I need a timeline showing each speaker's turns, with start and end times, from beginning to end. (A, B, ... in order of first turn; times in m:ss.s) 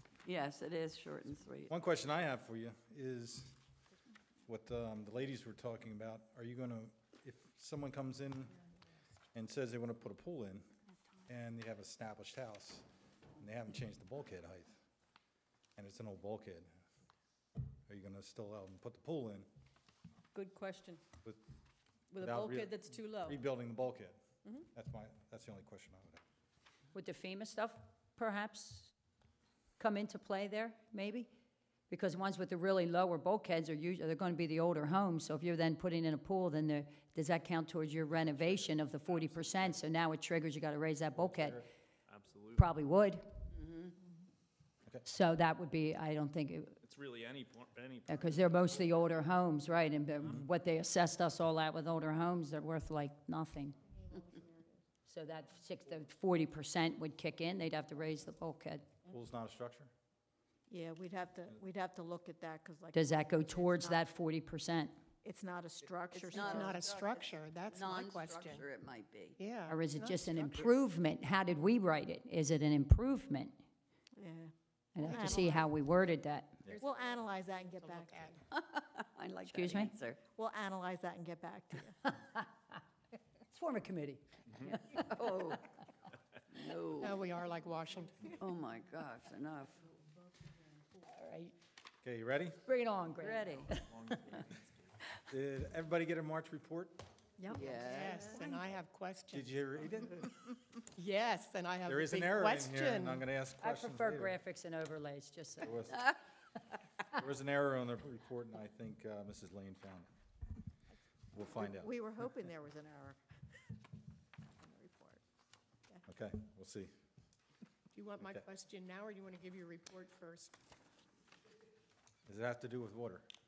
0:00.2-0:01.7 A
0:01.7-0:03.6 B
0:04.5-0:08.6 B
0:09.3-0:10.6 B
0:11.3-0:12.8 B
0:13.4-0:14.8 B
0:15.8-0:16.7 B
0:17.9-0:19.5 B
0:20.3-0:21.0 C
0:22.1-0:23.4 C
0:22.2-0:26.2 B
0:26.9-0:28.9 D
0:29.8-0:31.3 D
0:31.9-0:41.6 D
0:38.1-0:39.9 E
0:41.2-0:41.7 B
0:42.1-0:42.6 E
0:42.6-0:43.5 D
0:45.0-0:46.8 D
0:46.8-0:49.3 E
0:48.1-0:53.8 D
0:54.0-0:54.7 F
0:55.1-0:58.9 D
0:59.1-0:59.9 B
1:00.7-1:04.2 F
1:02.9-1:04.9 D
1:05.2-1:06.8 F
1:06.1-1:09.4 A
1:06.4-1:06.8 D
1:06.4-1:08.7 G
1:09.4-1:10.8 G
1:09.7-1:13.6 D
1:14.2-1:15.8 F
1:15.0-1:16.6 D
1:16.7-1:17.1 G
1:16.8-1:18.3 F
1:17.8-1:18.4 G
1:18.5-1:20.2 A
1:19.4-1:20.0 D
1:20.4-1:22.1 F
1:22.1-1:22.4 D
1:23.5-1:25.3 D
1:24.5-1:24.7 E
1:24.6-1:25.6 A
1:26.5-1:27.2 A
1:27.0-1:28.2 G
1:28.4-1:29.8 A
1:31.1-1:31.5 D
1:32.0-1:32.6 B
1:32.7-1:34.4 D
1:33.2-1:33.7 A
1:33.5-1:34.7 E
1:35.3-1:37.0 B
1:37.4-1:39.6 G
1:37.5-1:38.4 A
1:39.3-1:40.3 B
1:40.9-1:43.2 G
1:41.9-1:44.4 B
1:43.6-1:45.8 D
1:45.6-1:46.0 B
1:47.1-1:50.1 B
1:51.3-1:51.9 B
1:51.6-1:53.2 F
1:54.6-1:55.2 F
1:56.1-1:56.9 B
1:57.9-2:00.6 G
1:58.2-1:58.5 B
2:02.3-2:03.3 B